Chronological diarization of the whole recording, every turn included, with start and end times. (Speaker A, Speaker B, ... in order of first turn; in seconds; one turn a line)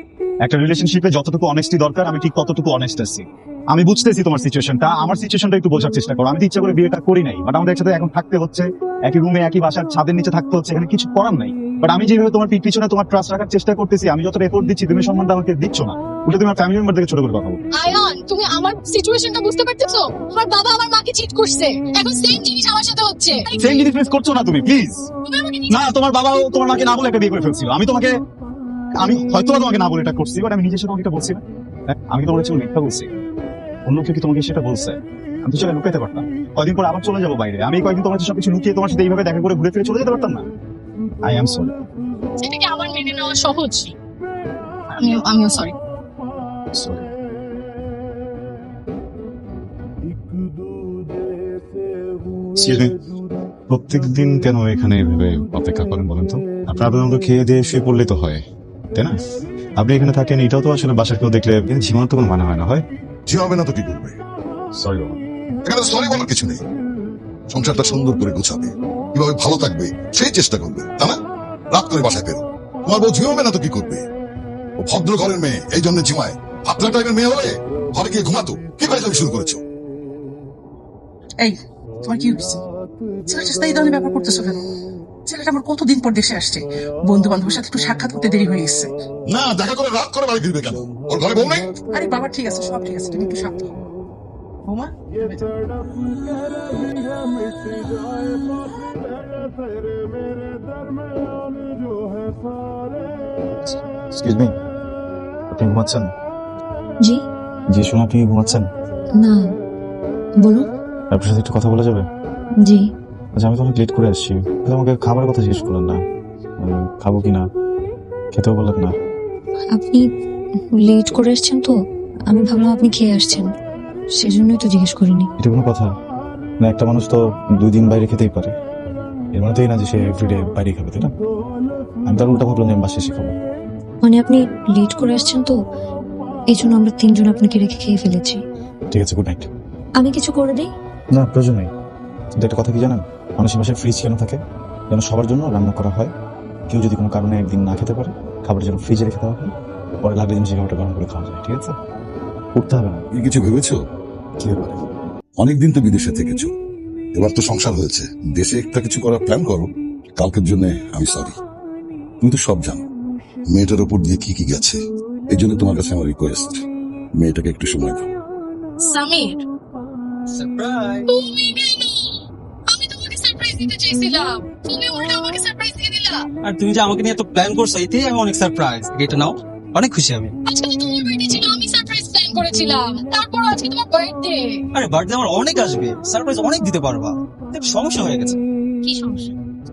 Speaker A: 0.4-17.6
Speaker B: 17.8-23.9
Speaker A: 23.6-25.0
Speaker B: 25.2-25.9
Speaker A: 25.7-28.1
Speaker A: 29.0-31.4
Speaker A: 32.1-33.1
Speaker A: 33.9-40.5
Speaker A: 41.2-41.7
Speaker B: 42.4-43.9
Speaker B: 44.9-45.7
Speaker A: 46.7-47.1
Speaker A: 52.6-52.9
Speaker A: 53.7-54.9
Speaker A: 55.6-58.3
Speaker A: 59.8-62.8
Speaker C: 63.3-64.2
Speaker A: 64.8-65.2
Speaker C: 65.6-66.6
Speaker C: 67.5-71.2
Speaker C: 71.7-74.0
Speaker C: 74.8-79.6
Speaker D: 81.4-82.6
Speaker D: 83.3-84.6
Speaker D: 85.3-88.9
Speaker C: 89.2-91.7
Speaker D: 91.9-93.8
Speaker D: 94.6-95.5
Speaker A: 104.1-104.5
Speaker A: 105.5-106.1
Speaker A: 107.7-108.7
Speaker E: 109.2-109.4
Speaker A: 111.1-112.1
Speaker A: 113.3-116.0
Speaker A: 116.6-117.5
Speaker A: 118.3-118.9
Speaker E: 119.8-120.0
Speaker E: 120.7-121.7
Speaker E: 122.3-123.5
Speaker E: 124.2-125.3
Speaker A: 125.4-125.9
Speaker A: 126.6-128.5
Speaker A: 129.3-131.1
Speaker A: 132.1-133.4
Speaker E: 134.0-135.6
Speaker E: 136.5-138.4
Speaker A: 138.9-139.5
Speaker E: 140.0-140.7
Speaker A: 141.1-141.7
Speaker A: 142.3-144.4
Speaker A: 144.9-146.1
Speaker A: 146.7-149.5
Speaker A: 150.0-151.7
Speaker A: 152.6-153.0
Speaker C: 153.1-153.8
Speaker A: 154.4-154.8
Speaker C: 155.4-156.5
Speaker C: 157.1-161.4
Speaker C: 162.2-162.9
Speaker C: 163.5-164.8
Speaker C: 165.3-166.6
Speaker C: 167.2-168.1
Speaker B: 168.9-169.4
Speaker F: 170.3-171.1
Speaker B: 171.1-172.2
Speaker B: 172.7-176.2
Speaker F: 176.4-180.3
Speaker B: 180.5-184.4
Speaker F: 184.7-188.4
Speaker B: 188.8-189.3